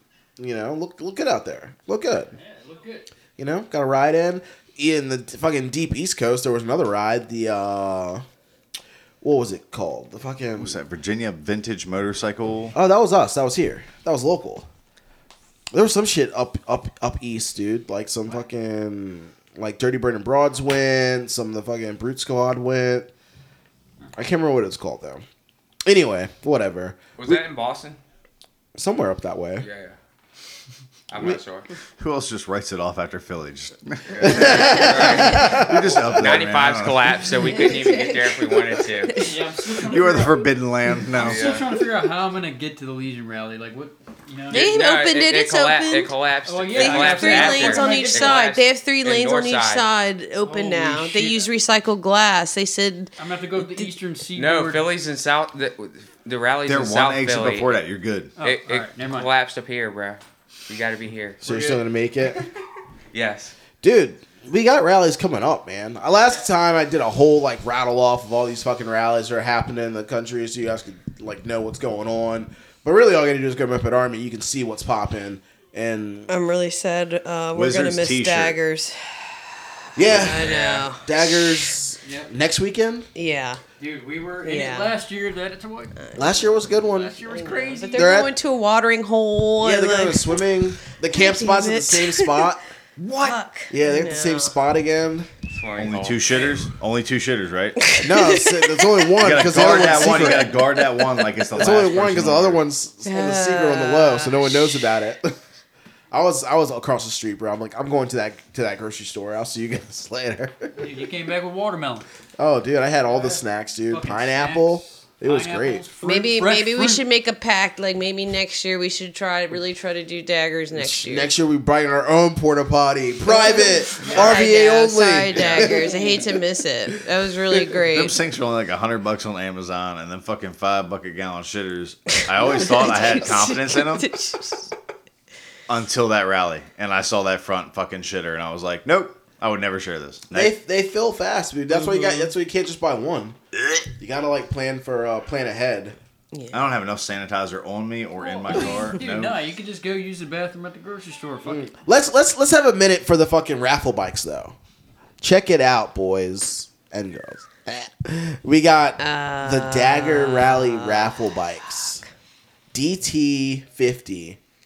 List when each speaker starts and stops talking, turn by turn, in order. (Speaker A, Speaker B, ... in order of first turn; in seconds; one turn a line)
Speaker A: 0.4-2.3
Speaker B: 2.3-3.1
Speaker A: 3.4-8.2
Speaker A: 9.2-10.8
Speaker C: 10.6-12.8
Speaker A: 12.7-14.7
Speaker A: 15.7-23.1
Speaker A: 24.1-25.2
Speaker A: 25.9-27.4
Speaker D: 27.2-28.0
Speaker A: 28.8-29.7
Speaker D: 29.6-30.0
Speaker D: 31.1-31.7
Speaker C: 32.0-37.1
Speaker D: 34.1-35.6
Speaker A: 34.2-36.4
Speaker E: 34.3-35.6
Speaker D: 36.2-39.2
Speaker E: 37.4-39.3
Speaker B: 39.1-40.5
Speaker C: 39.9-41.5
Speaker B: 41.1-44.8
Speaker D: 41.2-41.6
Speaker E: 44.5-46.1
Speaker D: 44.5-49.9
Speaker B: 46.5-48.4
Speaker E: 46.7-53.1
Speaker B: 50.4-51.5
Speaker B: 53.2-54.9
Speaker D: 54.4-57.8
Speaker C: 56.7-58.3
Speaker B: 58.4-59.3
Speaker D: 58.4-61.4
Speaker A: 61.4-62.4
Speaker B: 61.5-61.8
Speaker D: 63.1-63.5
Speaker A: 63.8-76.3
Speaker E: 76.3-79.3
Speaker C: 77.5-78.6
Speaker A: 80.0-83.1
Speaker E: 80.0-81.8
Speaker D: 80.3-80.9
Speaker B: 82.0-82.3
Speaker E: 83.2-83.6
Speaker B: 83.8-85.9
Speaker E: 84.4-84.9
Speaker A: 86.2-88.3
Speaker B: 86.7-88.1
Speaker E: 87.3-90.4
Speaker A: 89.6-92.6
Speaker E: 91.1-92.5
Speaker C: 93.0-93.4
Speaker E: 93.1-94.5
Speaker A: 93.7-95.3
Speaker D: 95.5-96.6
Speaker C: 95.8-97.9
Speaker E: 97.8-101.4
Speaker A: 98.0-100.6
Speaker C: 99.2-102.6
Speaker A: 101.5-105.4
Speaker E: 103.1-104.8
Speaker A: 106.1-110.7
Speaker B: 110.8-112.0
Speaker A: 112.4-115.9
Speaker B: 113.1-117.0
Speaker E: 116.0-121.3
Speaker A: 120.7-125.8
Speaker E: 123.3-128.2
Speaker B: 124.0-124.4
Speaker D: 125.3-126.1
Speaker C: 127.8-134.1
Speaker E: 132.3-134.7
Speaker C: 135.7-140.5
Speaker A: 140.3-143.4
Speaker E: 141.7-142.3
Speaker A: 144.0-146.0
Speaker E: 146.3-146.7
Speaker C: 146.5-149.4
Speaker B: 148.2-151.7
Speaker A: 151.5-154.6
Speaker A: 155.2-162.0
Speaker E: 159.0-161.3
Speaker A: 162.7-164.4